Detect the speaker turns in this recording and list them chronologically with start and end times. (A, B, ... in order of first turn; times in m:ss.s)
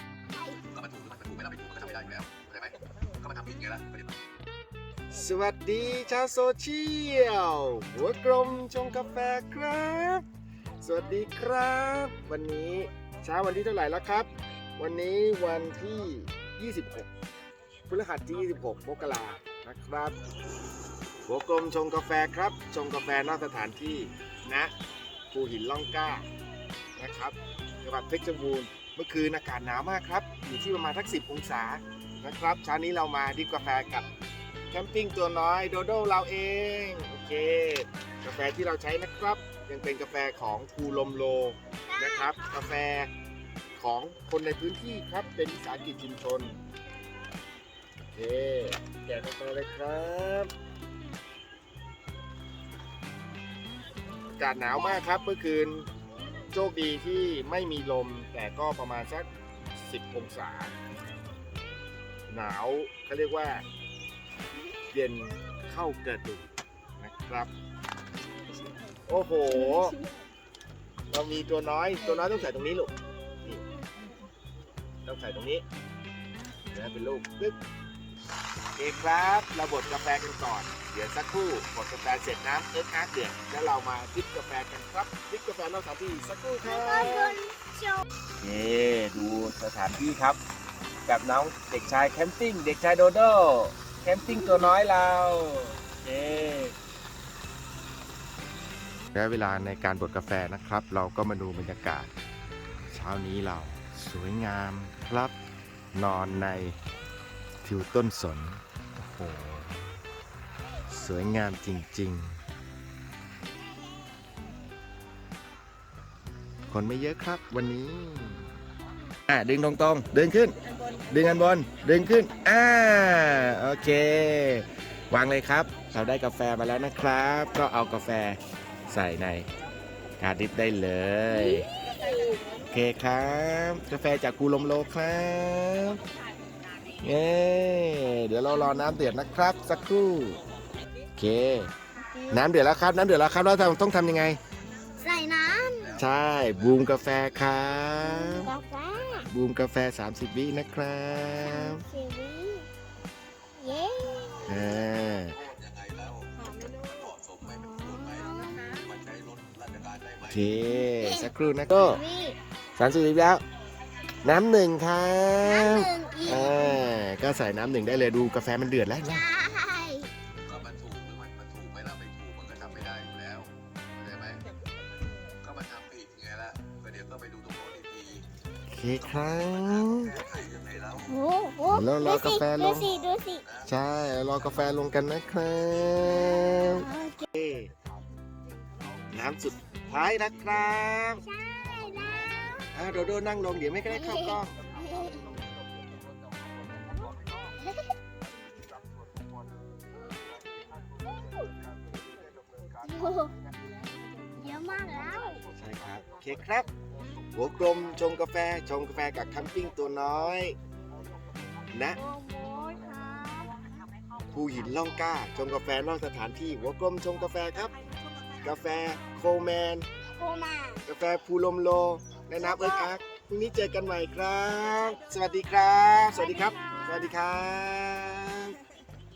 0:00.3-0:00.6 A
0:00.7-0:04.1 B
0:05.1-0:10.2 C
0:10.8-0:17.1 C
0:17.9-0:20.2 C
0:21.2-0:24.7 C
0:25.3-0:26.3 C
0:27.0-0:34.1 C
0:34.7-0:43.1 C
0:41.9-0:42.5 A
0:43.8-0:46.6 C
0:48.1-0:50.5 C
0:54.3-0:55.9 C
0:56.5-1:00.7 C
1:02.3-1:03.6 C
1:04.9-1:07.5 C
1:09.0-1:10.0 C
1:11.1-1:12.9 C
1:15.0-1:15.6 C
1:16.7-1:17.6 C
1:18.8-1:27.4 C
1:26.6-1:28.0 A
1:28.4-1:30.4 C
1:31.0-1:36.7 C
1:39.1-1:42.1 C
1:42.9-1:45.3 C
1:45.9-1:46.8 C
1:47.6-1:49.8 C
1:50.9-1:52.4 C
1:56.7-1:58.4 C
1:59.3-2:00.6 C
2:01.1-2:09.5 C
2:10.2-2:11.7 C
2:12.1-2:12.4 A
2:12.7-2:16.0 C
2:17.0-2:20.4 C
2:21.2-2:21.7 C
2:22.0-2:22.4 A
2:22.3-2:24.4 C
2:25.0-2:26.0 A
2:25.8-2:27.7 B
2:25.9-2:28.5 C
2:28.0-2:29.3 A
2:29.3-2:31.8 C
2:31.4-2:32.7 A
2:33.6-2:34.7 A
2:34.4-2:35.4 C
2:35.4-2:40.4 B
2:36.4-2:37.0 A
2:37.8-2:38.8 A
2:40.3-2:42.0 C
2:40.9-2:42.4 A
2:42.8-2:43.4 C
2:44.2-2:49.3 C
2:45.4-2:46.8 A
2:49.0-2:50.1 A
2:50.4-2:54.4 B
2:55.4-2:58.2 B
2:58.7-3:00.2 C
2:59.1-3:01.1 B
3:01.1-3:03.4 A
3:01.7-3:02.9 C
3:03.6-3:07.7 C
3:06.0-3:07.2 A
3:09.1-3:11.2 C
3:11.2-3:12.7 A
3:12.7-3:14.6 C
3:13.9-3:15.4 A
3:22.8-3:23.3 A
3:24.3-3:25.4 A
3:25.5-3:26.7 C
3:27.3-3:30.5 C
3:31.7-3:32.0 C
3:32.0-3:33.6 A
3:34.3-3:37.7 C
3:38.4-3:39.8 C
3:40.2-3:40.8 A
3:40.8-3:48.6 C
3:42.4-3:42.9 A
3:46.1-3:47.1 A